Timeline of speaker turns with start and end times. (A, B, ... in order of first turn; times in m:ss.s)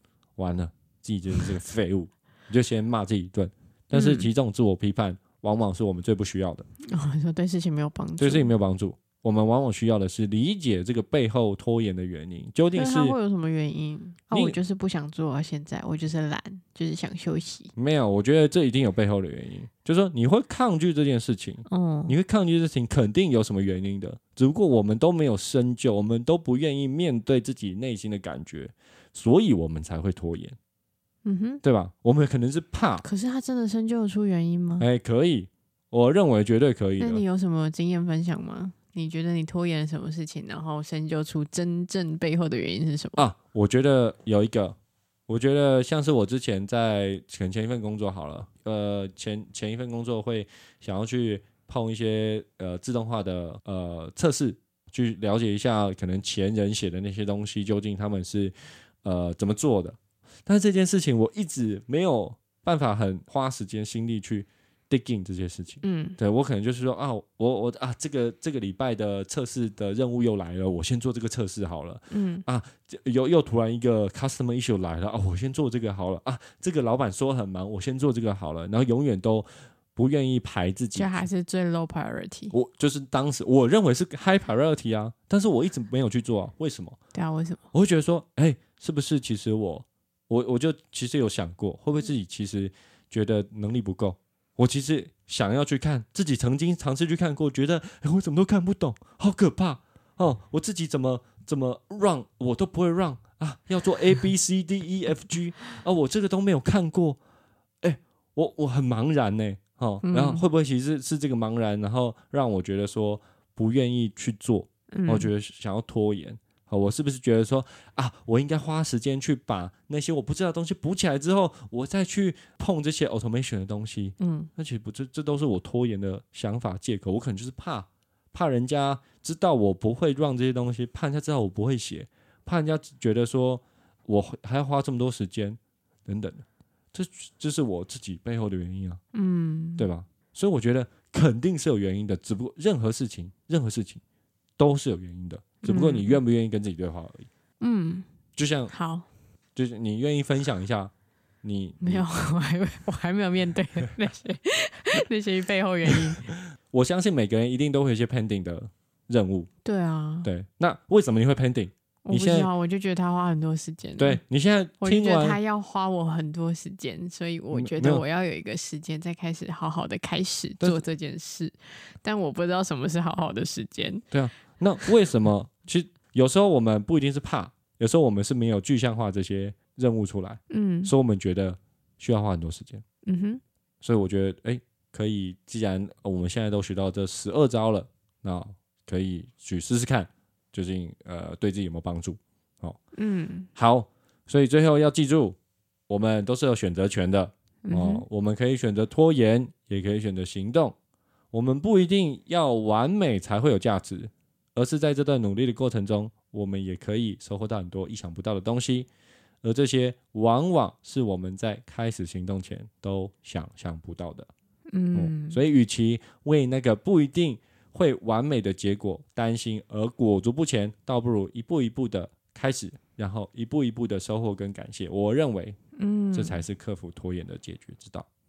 0:00.4-0:06.7 A
0:03.9-0:04.3 B
0:06.8-0:08.5 B
0:08.2-0:13.2 A
0:12.7-0:17.7 B
0:14.3-0:14.6 A
0:17.7-0:30.6 A
0:21.7-0:22.1 B
0:31.2-0:31.6 B
0:31.6-0:33.0 A
0:33.0-0:34.8 B
0:34.8-0:37.2 A
0:37.0-0:43.2 B
0:43.2-0:44.8 A
0:45.3-1:21.3 A
1:05.8-1:06.2 B
1:12.1-1:12.4 B
1:20.9-1:22.5 B
1:22.5-1:27.0 A
1:27.1-1:27.6 B
1:27.7-1:47.2 A
1:47.8-2:19.0 A
1:50.0-1:50.4 B
1:54.9-1:55.3 B
2:04.2-2:04.5 B
2:19.1-2:19.9 B
2:19.8-2:24.0 A
2:24.6-2:27.3 A
2:25.6-2:26.2 B
2:27.6-2:28.1 B
2:28.4-2:28.7 A
2:28.7-2:29.1 B
2:29.5-2:32.0 A
2:31.8-2:36.3 B
2:36.7-2:39.5 A
2:39.6-2:40.3 B
2:40.2-2:42.5 A
2:42.0-2:44.2 B
2:44.0-2:45.4 A
2:44.8-2:54.0 B
2:47.5-2:48.0 A
2:54.1-3:02.8 A
3:00.5-3:00.9 B
3:03.0-3:03.4 B
3:03.8-3:12.8 A
3:12.9-3:13.5 B
3:13.5-3:15.4 A
3:15.9-3:20.7 A
3:17.6-3:18.0 B
3:21.3-3:28.9 A
3:29.4-3:34.3 A
3:34.7-3:35.4 B
3:34.9-3:45.6 A
3:45.8-3:46.4 B
3:46.1-3:48.1 A